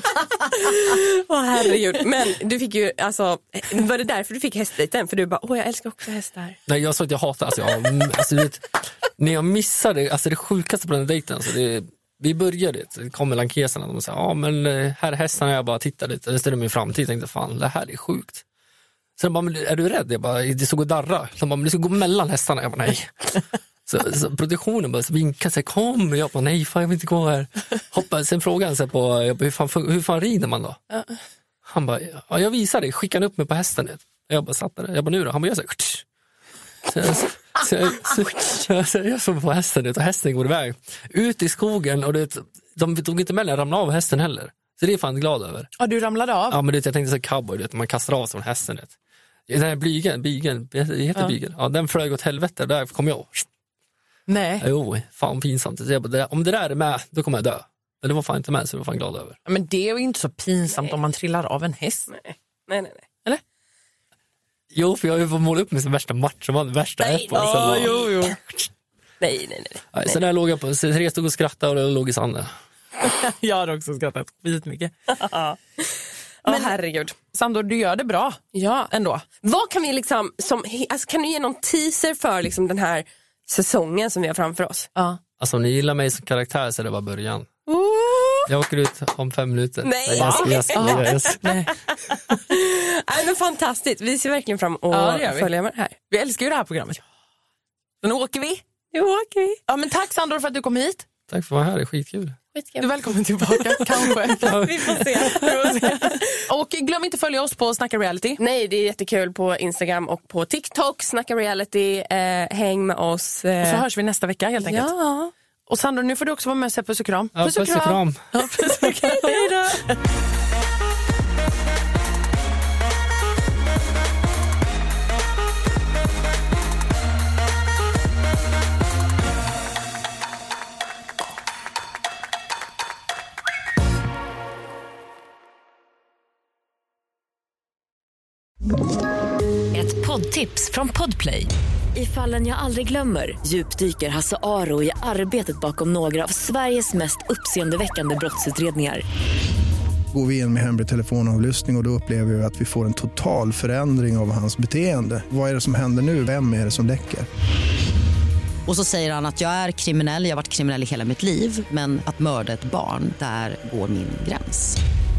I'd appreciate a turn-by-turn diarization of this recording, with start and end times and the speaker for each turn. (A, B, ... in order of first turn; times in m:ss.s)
0:00.5-0:06.6 A
0:06.7-0:18.4 B
0:19.2-0:30.8 B
0:31.6-0:36.0 B
0:36.9-0:45.7 B
0:45.8-0:46.4 C
0:46.5-0:48.9 B
0:49.5-0:53.4 B
0:54.3-0:54.6 C
0:54.6-0:59.4 B
0:59.5-1:02.0 C
1:00.7-1:01.0 A
1:02.1-1:03.0 A
1:04.7-1:08.0 B
1:07.0-1:08.7 A
1:07.9-1:08.3 C
1:09.2-1:10.2 A
1:09.9-1:12.5 B
1:13.1-1:14.9 C
1:15.1-1:15.8 A
1:16.4-1:17.2 A
1:17.4-1:18.4 C
1:18.5-1:24.9 A
1:25.4-1:27.5 B
1:27.7-1:28.5 A
1:28.5-1:31.5 B
1:29.8-1:31.0 A
1:30.3-1:31.7 C
1:32.5-1:36.0 A
1:34.9-1:35.5 C
1:36.1-1:37.0 C
1:38.0-1:38.6 C
1:38.9-1:39.6 A
1:39.7-1:41.0 C
1:41.3-1:42.4 B
1:42.6-1:42.9 A
1:42.8-1:44.4 C
1:43.6-1:45.7 B
1:44.4-1:46.4 A
1:44.9-1:48.4 C
1:48.4-1:53.8 A
1:53.7-1:54.9 C
1:54.6-1:55.3 A
1:55.7-2:00.0 C
1:57.3-1:59.5 B
2:19.7-2:29.0 D
2:30.1-2:37.3 E
2:38.6-2:44.8 F